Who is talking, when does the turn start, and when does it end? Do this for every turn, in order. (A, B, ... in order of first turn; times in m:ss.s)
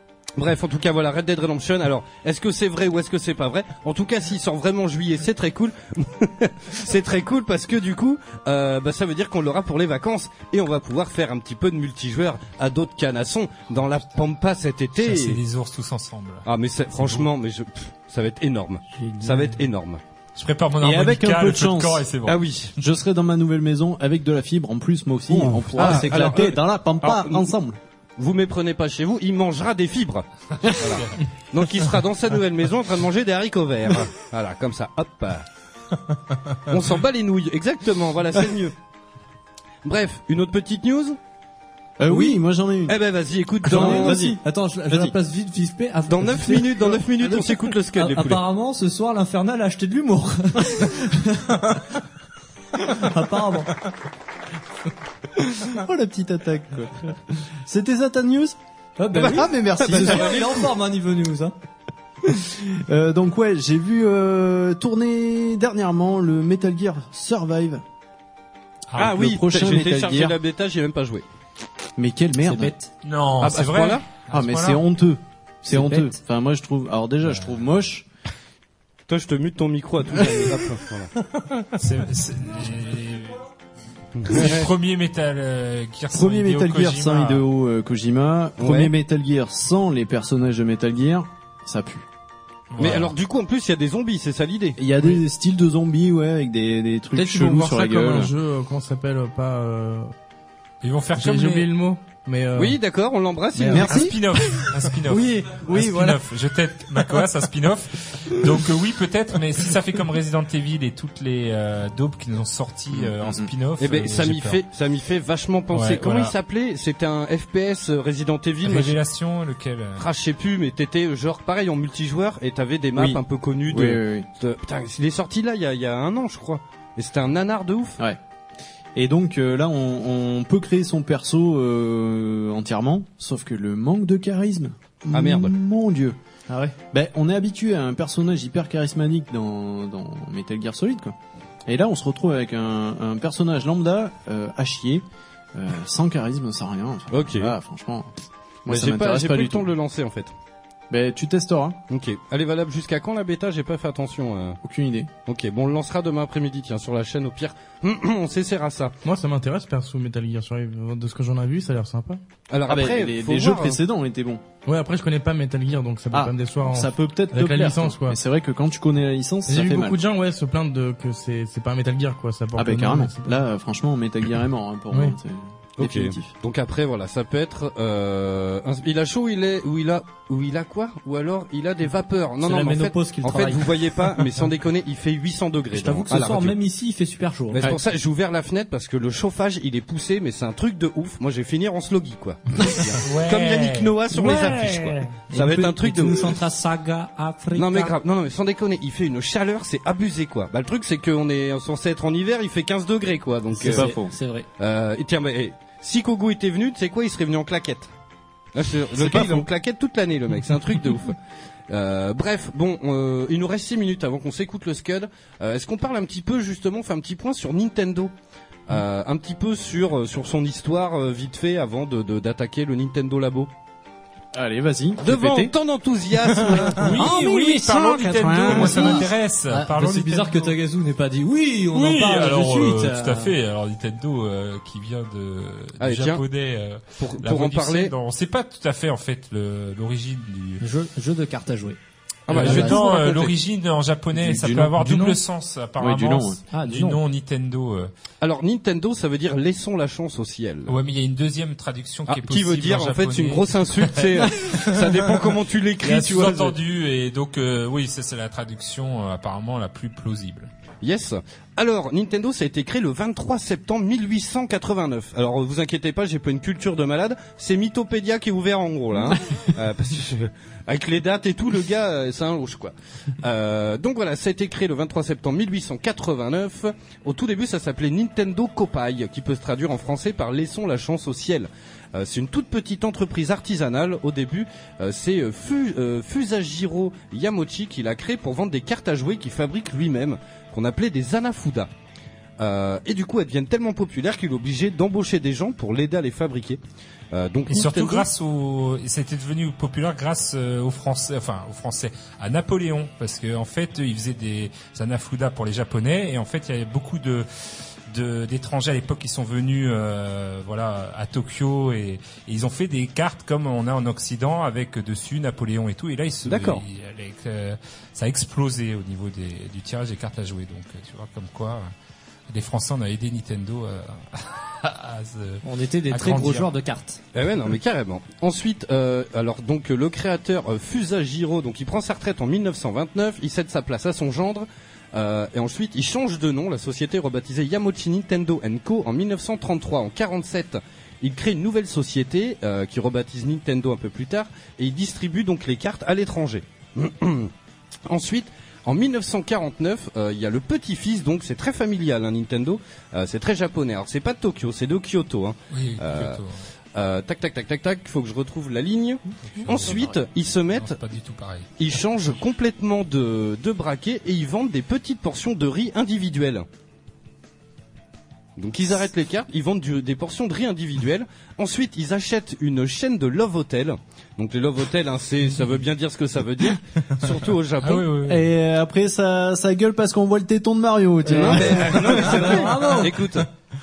0:00.4-0:15.4 A
0:15.0-0:17.3 B
0:16.4-0:20.0 A
0:19.0-0:19.6 C
0:20.4-0:22.4 B
0:20.8-0:22.0 D
0:22.2-0:22.7 A
0:22.8-0:27.8 D
0:25.7-0:27.5 A
0:28.2-0:35.4 A
0:30.6-0:31.0 B
0:36.7-0:38.7 A
0:39.8-0:41.2 A
0:42.0-0:43.0 D
0:42.1-0:42.4 C
0:42.9-0:44.3 A
0:43.6-0:45.1 D
0:43.7-0:52.0 C
0:46.1-0:48.4 A
0:52.8-0:53.7 C
0:55.6-0:58.6 D
0:59.0-1:01.5 C
0:59.1-1:00.4 D
0:59.1-1:00.6 A
1:02.2-1:07.8 D
1:08.9-1:09.2 B
1:09.0-1:10.4 D
1:09.0-1:11.2 A
1:12.0-1:12.7 D
1:12.4-1:12.9 C
1:13.0-1:14.8 B
1:13.4-1:14.1 A
1:14.3-1:18.0 D
1:15.7-1:16.2 C
1:19.1-1:21.1 A
1:21.8-1:23.4 B
1:24.2-1:24.7 A
1:24.2-1:27.4 B
1:26.1-1:32.1 D
1:28.6-1:28.9 A
1:32.7-1:33.1 B
1:32.8-1:34.8 A
1:34.8-1:38.3 D
1:37.1-1:40.1 E
1:40.8-1:41.7 B
1:41.1-1:42.8 E
1:42.5-1:44.1 A
1:43.5-1:46.2 E
1:43.7-1:44.2 D
1:43.8-1:54.6 B
1:52.9-1:53.5 D
1:53.8-1:59.0 A
1:55.7-1:56.3 B
1:58.6-2:00.0 B
2:00.0-2:08.0 A
2:03.0-2:04.3 D
2:08.9-2:16.2 D
2:15.1-2:15.5 A
2:16.5-2:16.7 C
2:16.9-2:21.1 D
2:21.6-2:25.0 D
2:25.5-2:28.1 D
2:27.1-2:27.5 A
2:28.6-2:29.7 D
2:28.7-2:30.3 A
2:30.9-2:31.8 D
2:31.9-2:34.6 A
2:34.6-2:35.1 D
2:35.2-2:39.0 A
2:39.0-2:42.2 E
2:42.5-2:43.8 A
2:42.7-2:44.4 D
2:44.6-2:48.2 E
2:46.1-2:50.0 D
2:49.5-2:53.4 E
2:52.6-2:56.3 D
2:55.8-3:06.5 A
3:02.4-3:03.7 C
3:05.7-3:07.7 C
3:07.5-3:16.3 A
3:13.0-3:14.0 B
3:14.1-3:17.9 C
3:17.5-3:23.9 A
3:23.5-3:24.4 C
3:23.6-3:24.1 D
3:24.6-3:27.9 A
3:28.5-3:31.2 A
3:29.0-3:29.4 D
3:31.7-3:38.1 A
3:38.7-3:43.5 A
3:44.3-3:45.5 D
3:45.0-3:47.1 A
3:46.8-3:50.5 B
3:46.9-3:49.1 D
3:48.5-3:53.3 C
3:51.7-4:00.6 B
3:55.8-3:56.2 A
3:57.0-3:57.9 A
4:00.6-4:01.8 C
4:02.3-4:03.3 A
4:02.3-4:07.9 B
4:02.3-4:02.8 C
4:04.1-4:04.8 D
4:04.7-4:05.2 E
4:05.8-4:06.4 D
4:06.5-4:07.0 C
4:08.2-4:10.7 A
4:10.7-4:14.8 B
4:12.1-4:16.6 A
4:15.8-4:20.5 B
4:20.8-4:51.7 A
4:52.4-4:56.6 A
4:57.1-4:58.1 A
4:57.5-5:07.3 B
5:07.9-5:21.7 B
5:16.2-5:16.6 A
5:22.3-5:26.5 B
5:25.4-5:27.0 C
5:27.1-5:47.3 A
5:47.9-5:56.2 A
5:55.5-5:56.4 B
5:56.7-6:00.8 A
5:59.3-6:01.5 B
6:01.6-6:06.4 A
6:08.4-6:17.9 A
6:17.6-6:18.3 B
6:18.1-6:22.4 D
6:21.1-6:23.0 C
6:21.1-6:23.3 A